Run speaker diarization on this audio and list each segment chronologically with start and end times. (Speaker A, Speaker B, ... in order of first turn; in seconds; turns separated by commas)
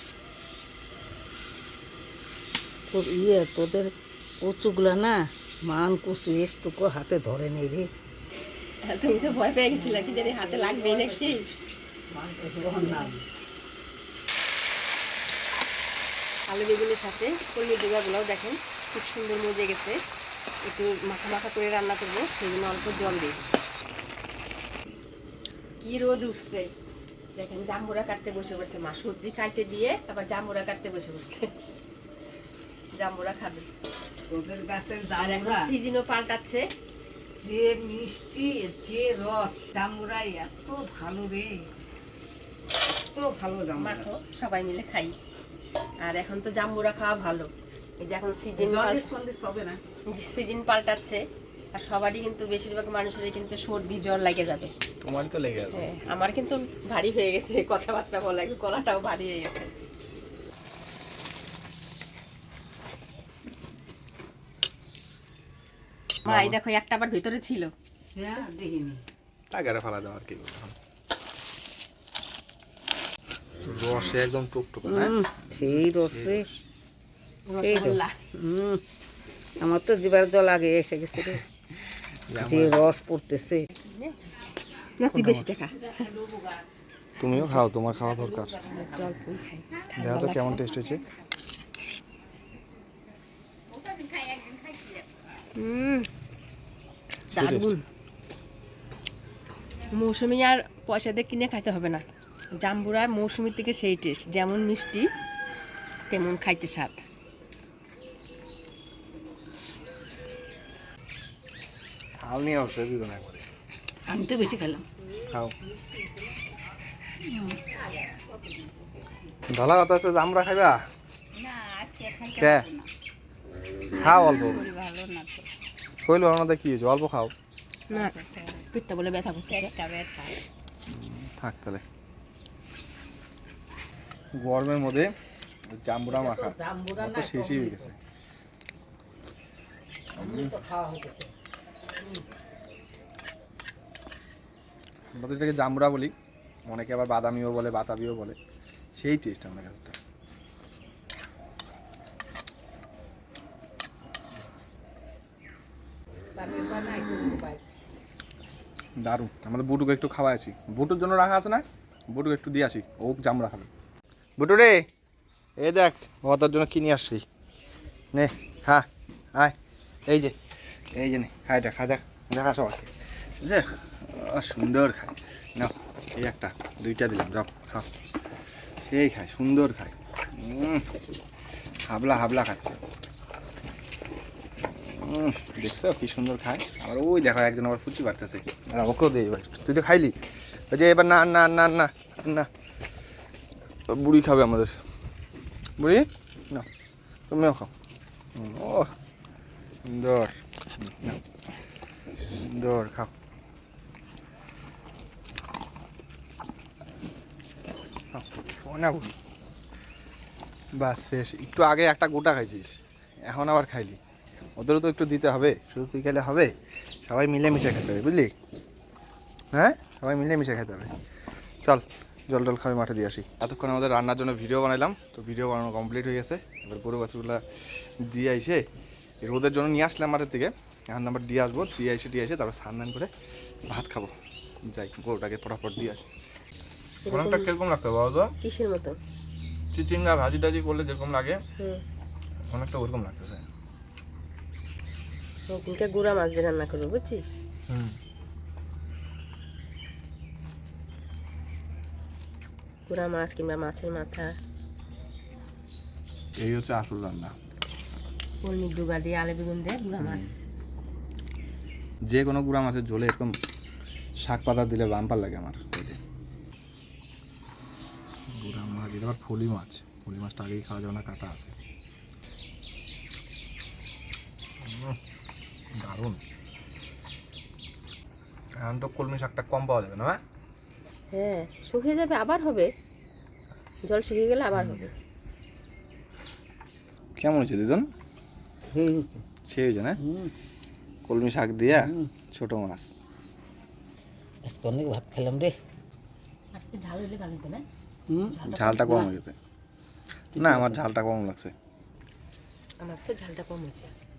Speaker A: 2.9-7.9, Speaker B: 8.8-11.5, Speaker A: 9.2-11.4, Speaker A: 12.1-13.2, Speaker B: 12.8-13.1, Speaker B: 16.5-20.0, Speaker B: 20.6-23.4, Speaker B: 25.8-26.7, Speaker B: 27.4-31.5, Speaker B: 33.0-33.7, Speaker A: 34.3-35.7, Speaker B: 35.1-36.6, Speaker A: 37.4-41.7, Speaker A: 43.0-44.1, Speaker B: 43.8-45.1, Speaker B: 46.0-47.5, Speaker B: 48.0-49.1, Speaker A: 48.6-49.8, Speaker B: 50.1-51.2, Speaker B: 51.7-54.7, Speaker C: 55.0-56.0, Speaker B: 55.7-59.8, Speaker C: 66.2-66.6, Speaker B: 66.2-67.7, Speaker A: 68.1-69.0, Speaker C: 69.5-70.8, Speaker C: 73.6-76.6, Speaker A: 74.8-76.5, Speaker B: 77.5-78.2, Speaker A: 77.6-78.8, Speaker A: 79.6-81.4, Speaker C: 82.3-82.8, Speaker A: 82.3-83.7, Speaker B: 83.7-86.0, Speaker C: 85.1-85.5, Speaker A: 86.0-86.6, Speaker C: 87.2-88.6, Speaker B: 87.3-87.6, Speaker A: 88.1-89.2, Speaker B: 88.6-90.7, Speaker C: 90.0-91.0, Speaker A: 93.8-95.1, Speaker B: 95.5-96.1, Speaker C: 97.3-97.7, Speaker B: 97.3-97.8, Speaker B: 99.9-102.0, Speaker B: 102.6-105.1, Speaker B: 106.1-107.0, Speaker C: 112.2-113.5, Speaker A: 114.1-114.9, Speaker C: 115.3-115.5, Speaker B: 115.6-116.4, Speaker A: 117.3-119.0, Speaker C: 119.5-120.8, Speaker A: 121.4-122.9, Speaker C: 122.4-122.7, Speaker C: 124.0-124.6, Speaker A: 124.0-125.5, Speaker C: 126.0-127.3, Speaker B: 127.9-129.7, Speaker A: 127.9-128.6, Speaker A: 129.5-130.4, Speaker C: 130.9-131.8, Speaker C: 134.4-135.1, Speaker C: 135.7-138.0, Speaker A: 136.1-137.9, Speaker C: 140.2-140.5, Speaker A: 140.2-141.3, Speaker A: 141.9-142.3, Speaker C: 145.1-146.1, Speaker C: 146.7-148.4, Speaker C: 149.0-150.0, Speaker A: 156.4-157.6, Speaker C: 159.0-163.7, Speaker C: 164.4-164.9, Speaker C: 165.6-167.2, Speaker C: 168.1-169.6, Speaker C: 170.1-170.4, Speaker C: 170.9-177.9, Speaker C: 178.8-180.9, Speaker C: 181.8-182.8, Speaker C: 184.6-190.2, Speaker C: 190.7-192.5, Speaker C: 193.9-194.8, Speaker C: 195.8-196.7, Speaker C: 197.3-197.7, Speaker C: 198.3-198.9, Speaker C: 199.8-201.2, Speaker C: 202.2-203.1, Speaker C: 208.1-209.2, Speaker C: 210.8-214.0, Speaker C: 214.6-216.5, Speaker C: 217.1-218.3, Speaker C: 219.5-220.9, Speaker C: 221.6-227.4, Speaker C: 228.1-228.6, Speaker C: 229.2-233.1, Speaker C: 233.7-234.1, Speaker C: 234.7-236.1, Speaker B: 237.1-237.5, Speaker C: 237.1-238.3, Speaker B: 238.4-239.0, Speaker C: 239.7-241.4, Speaker C: 242.5-243.4, Speaker B: 245.5-247.3, Speaker C: 247.7-248.0, Speaker B: 252.9-254.3, Speaker C: 256.4-257.4, Speaker B: 258.4-260.3, Speaker C: 260.0-260.3, Speaker C: 262.1-263.4, Speaker C: 264.3-266.0, Speaker C: 268.3-271.6, Speaker C: 274.6-275.0, Speaker C: 275.7-276.2, Speaker C: 278.6-280.2, Speaker B: 281.1-282.7, Speaker B: 283.9-284.9, Speaker C: 284.6-284.9, Speaker C: 287.2-287.9, Speaker A: 288.7-289.2, Speaker C: 289.5-290.0, Speaker A: 290.0-290.3, Speaker C: 291.1-292.9, Speaker A: 291.7-292.1, Speaker A: 294.4-295.6, Speaker B: 296.5-297.6, Speaker A: 298.1-299.1, Speaker B: 298.3-299.0, Speaker C: 298.4-299.4, Speaker A: 300.4-300.8, Speaker C: 300.4-301.5, Speaker B: 302.8-303.9